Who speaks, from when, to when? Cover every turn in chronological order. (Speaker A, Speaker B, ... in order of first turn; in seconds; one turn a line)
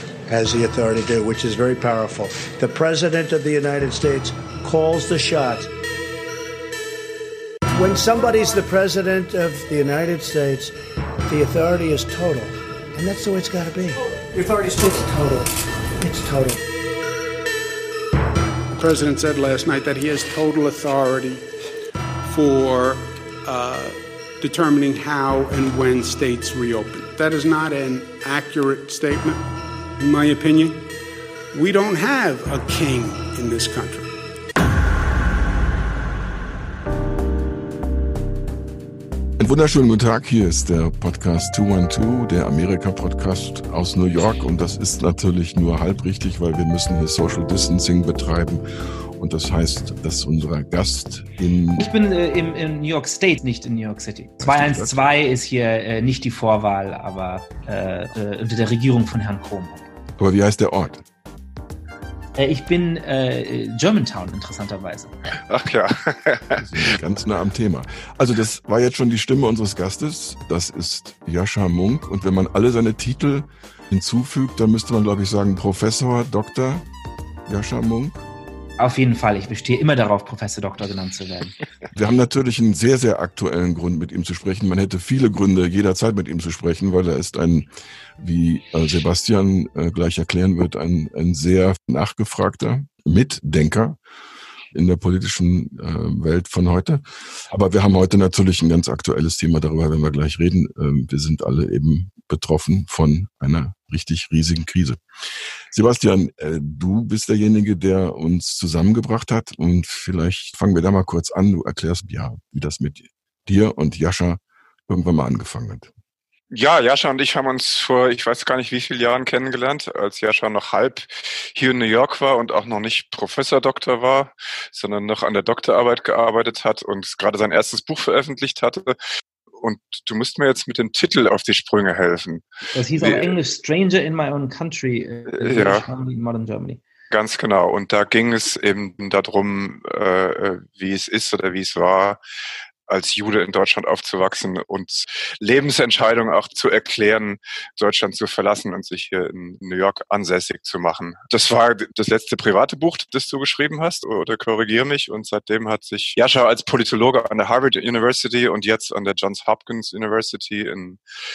Speaker A: 0.3-5.7
Speaker A: 7.7-10.8
Speaker A: 11.3-16.6
Speaker B: 18.7-21.5
Speaker B: 22.2-29.4
Speaker B: 30.0-30.9
Speaker B: 31.5-34.1
Speaker C: 39.4-48.6
Speaker C: 49.1-51.9
Speaker D: 51.8-59.9
Speaker C: 54.4-54.9
Speaker C: 60.2-61.0
Speaker D: 62.4-65.1
Speaker E: 65.5-66.8
Speaker C: 66.6-76.8
Speaker C: 77.5-78.2
Speaker D: 78.8-81.5
Speaker C: 81.9-87.7
Speaker C: 88.2-94.0
Speaker C: 94.7-105.0
Speaker C: 105.7-115.9
Speaker E: 116.5-129.0
Speaker E: 129.6-132.4
Speaker D: 132.7-136.8
Speaker E: 133.0-133.3
Speaker E: 135.3-135.8
Speaker E: 137.1-142.2
Speaker E: 142.9-161.0